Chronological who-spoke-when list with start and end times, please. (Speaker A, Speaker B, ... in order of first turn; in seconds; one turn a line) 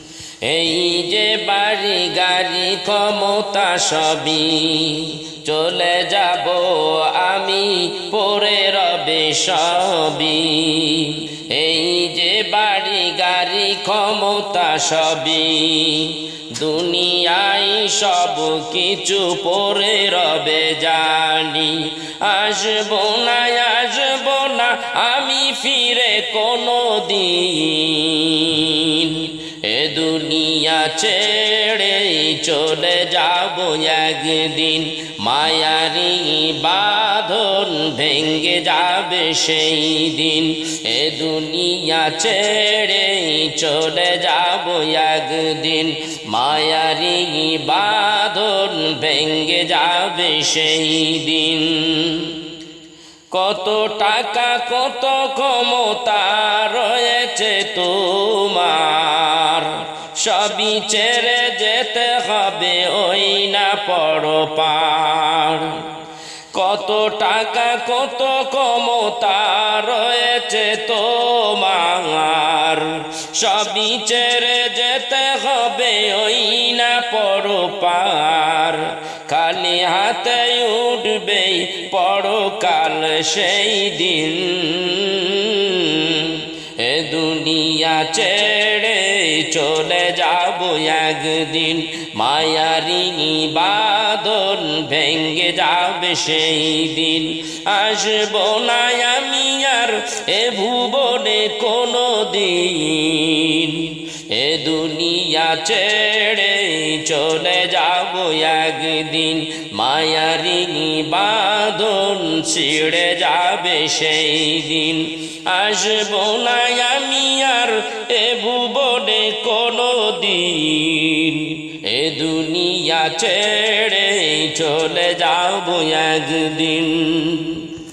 Speaker A: 0.4-52.3
Speaker A: 53.3-65.8
Speaker A: 66.5-127.7